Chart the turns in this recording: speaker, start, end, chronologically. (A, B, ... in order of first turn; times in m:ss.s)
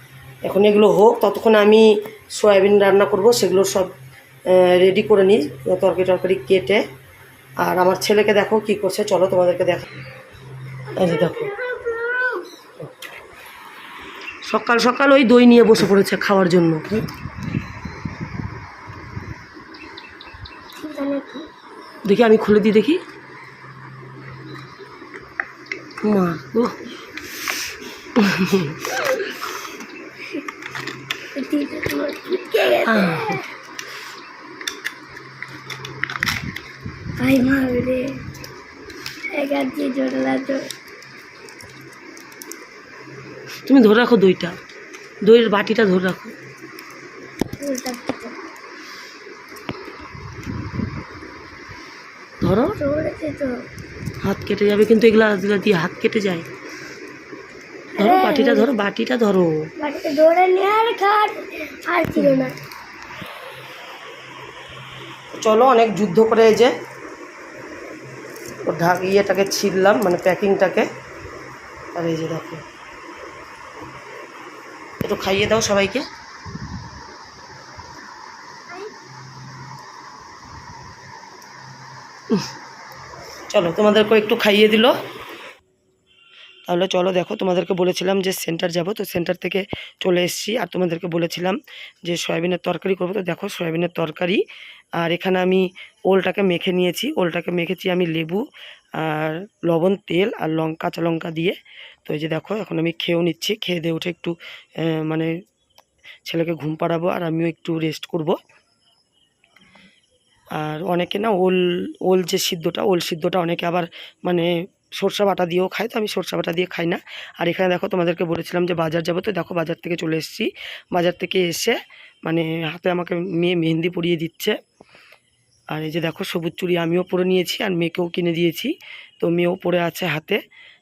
0:00.4-0:03.9 A
0:04.5-0:06.9 A
0:07.6-0:09.9 A
0:10.9-0:12.5 B
0:10.9-0:11.5 A
0:14.5-0:17.0 A
0:20.8-0:21.5 B
0:22.0-0:23.0 A
0:26.0-0:26.8 A
0:28.2-0:29.0 A
0:31.3-0:33.5 B
0:32.8-0:33.4 A
0:37.2-0:38.2 B
0:39.3-0:40.7 B
0:43.6-0:44.6 A
0:45.2-0:46.4 A
0:47.6-0:48.4 B
0:52.4-0:52.8 A
0:52.7-0:53.6 B
0:54.2-0:56.5 A
0:57.9-0:58.7 B
0:58.0-0:59.7 A
0:59.8-1:02.6 B
1:05.3-1:06.7 A
1:08.6-1:10.9 A
1:11.9-1:12.6 A
1:15.0-1:16.1 A
1:23.5-1:24.9 A
1:26.6-1:34.4 A
1:35.0-1:38.4 A
1:39.0-1:45.3 A
1:46.3-1:48.4 A
1:50.6-2:04.6 A
2:05.7-2:10.4 A